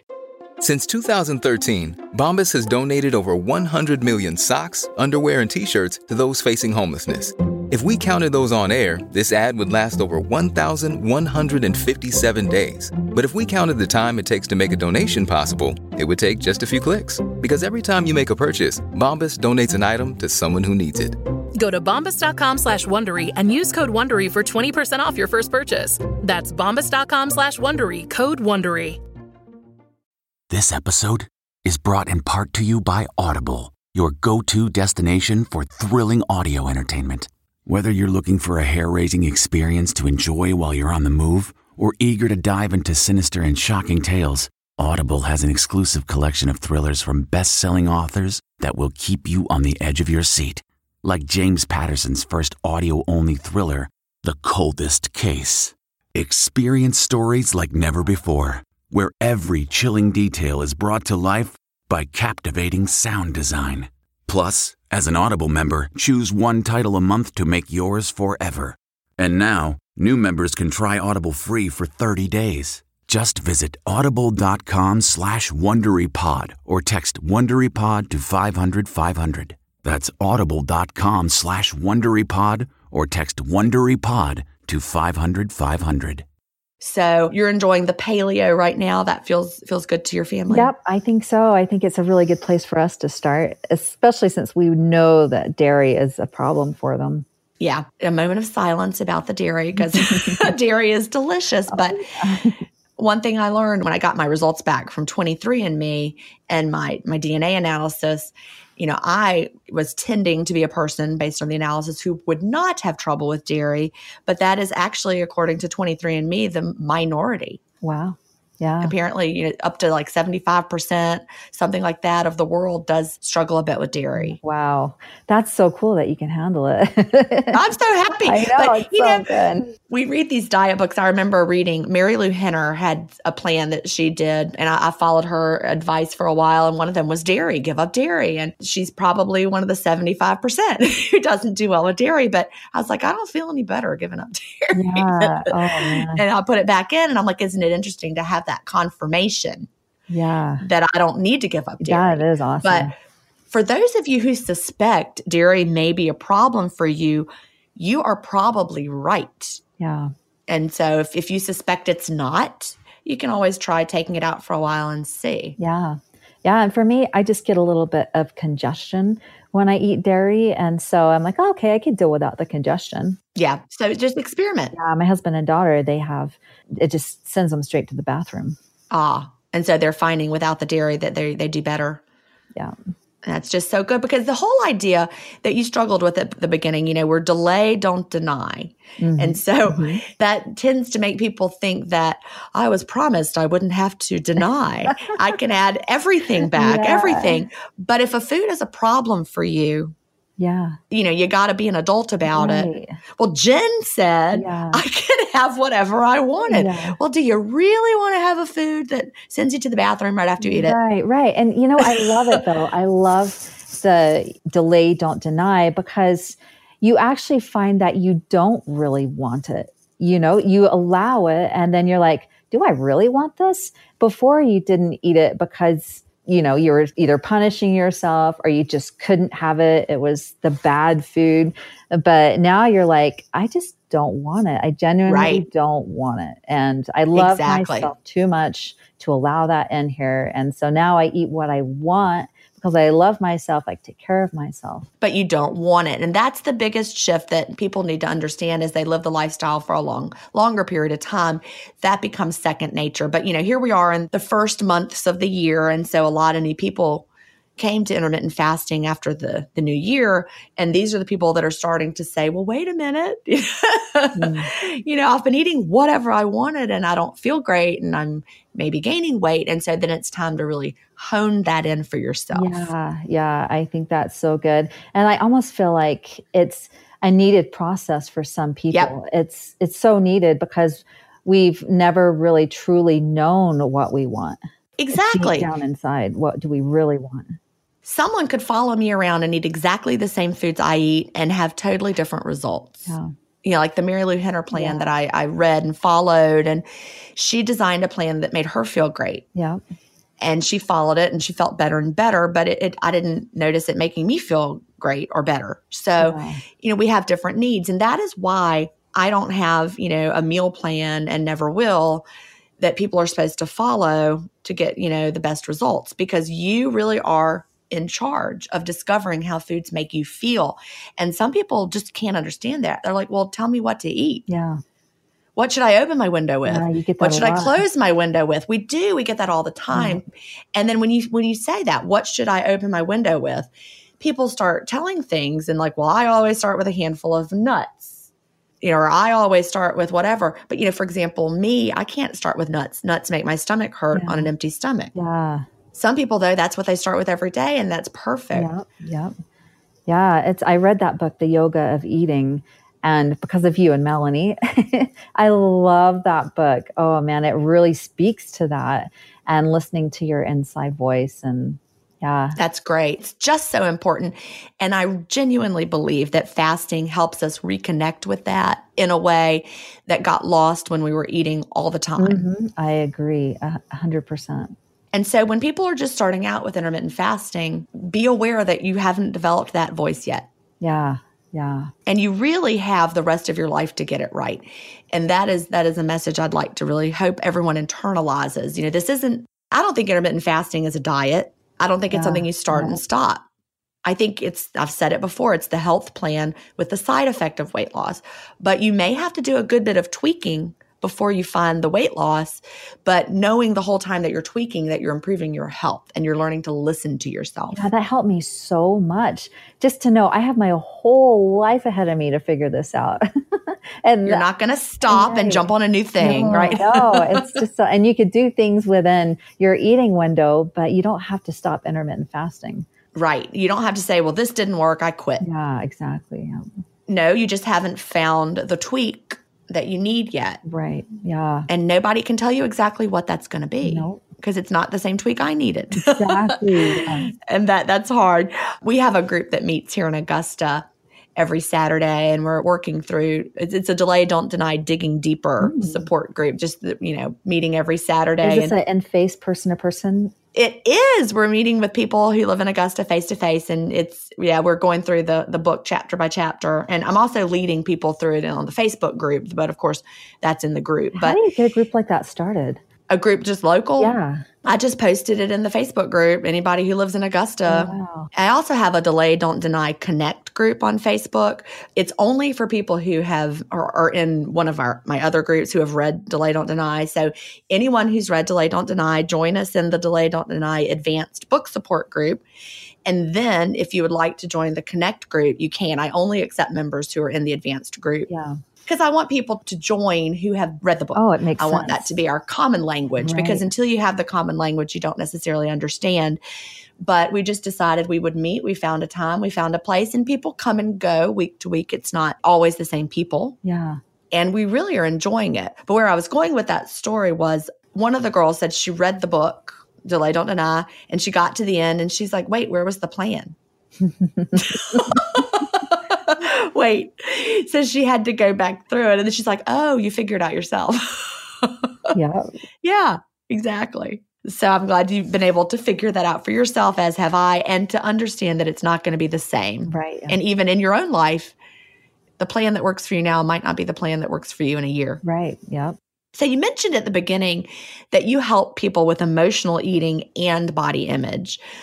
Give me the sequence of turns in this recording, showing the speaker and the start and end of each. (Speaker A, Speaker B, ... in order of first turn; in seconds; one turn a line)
Speaker A: 0.6-21.2
Speaker B: 21.6-29.0
Speaker C: 30.5-86.2
Speaker D: 86.8-90.7
Speaker E: 90.5-97.2
Speaker D: 97.6-102.0
Speaker E: 99.8-100.5
Speaker E: 101.7-102.6
Speaker D: 103.0-117.6
Speaker E: 117.8-118.9
Speaker D: 118.8-124.4
Speaker E: 124.2-127.7
Speaker D: 127.5-129.3
Speaker E: 128.2-129.7
Speaker D: 129.9-149.7
Speaker E: 144.7-146.2
Speaker E: 150.1-150.6
Speaker D: 150.6-152.9
Speaker E: 151.8-152.9
Speaker D: 153.5-159.6
Speaker E: 159.8-160.1
Speaker D: 160.5-165.6
Speaker E: 165.6-173.2
Speaker D: 173.4-174.8
Speaker E: 174.7-178.6
Speaker D: 178.9-182.0
Speaker D: 183.2-199.9
Speaker E: 189.0-190.0
Speaker E: 196.5-197.4
Speaker E: 200.4-200.8
Speaker D: 200.9-210.8
Speaker E: 202.3-203.0
Speaker E: 204.3-204.8
Speaker E: 206.4-207.0
Speaker E: 210.4-244.9
Speaker D: 211.8-212.4
Speaker D: 235.1-235.4
Speaker D: 237.1-237.9
Speaker D: 245.0-272.7
Speaker E: 264.2-264.5
Speaker E: 272.3-284.4
Speaker D: 284.8-285.5
Speaker E: 284.9-287.4
Speaker D: 287.8-296.6
Speaker E: 294.5-294.9
Speaker D: 297.1-299.2
Speaker E: 299.4-299.6
Speaker D: 300.2-312.0
Speaker E: 306.0-306.4
Speaker D: 312.6-324.2
Speaker E: 324.3-324.6
Speaker D: 325.4-338.1
Speaker E: 326.5-327.6
Speaker E: 329.7-330.0
Speaker D: 338.6-344.9
Speaker E: 343.9-344.3
Speaker E: 344.9-345.4
Speaker D: 345.7-348.5
Speaker E: 348.3-349.1
Speaker E: 349.9-362.4
Speaker D: 362.4-372.2
Speaker E: 372.0-374.6
Speaker D: 374.9-380.3
Speaker E: 380.6-381.7
Speaker D: 381.9-393.2
Speaker E: 391.9-392.8
Speaker D: 393.9-407.7
Speaker E: 407.5-414.2
Speaker D: 414.1-417.4
Speaker E: 414.9-422.7
Speaker D: 422.9-425.3
Speaker E: 425.2-426.5
Speaker D: 426.9-430.4
Speaker E: 430.4-431.5
Speaker D: 431.5-448.6
Speaker E: 433.6-434.0
Speaker E: 435.8-437.1
Speaker E: 445.4-445.9
Speaker E: 448.2-450.1
Speaker D: 450.4-461.2
Speaker E: 461.0-462.6
Speaker D: 462.9-482.2
Speaker E: 463.8-464.2
Speaker E: 467.5-468.1
Speaker D: 482.9-488.1
Speaker E: 488.1-488.4
Speaker D: 488.6-496.2
Speaker E: 490.9-491.9
Speaker E: 493.0-493.5
Speaker D: 496.8-503.4
Speaker E: 503.4-503.8
Speaker D: 504.1-513.4
Speaker E: 513.8-515.0
Speaker D: 514.4-521.9
Speaker E: 521.9-522.3
Speaker D: 522.6-531.3
Speaker E: 529.7-530.2
Speaker D: 532.2-535.0
Speaker E: 535.0-535.8
Speaker D: 536.1-541.4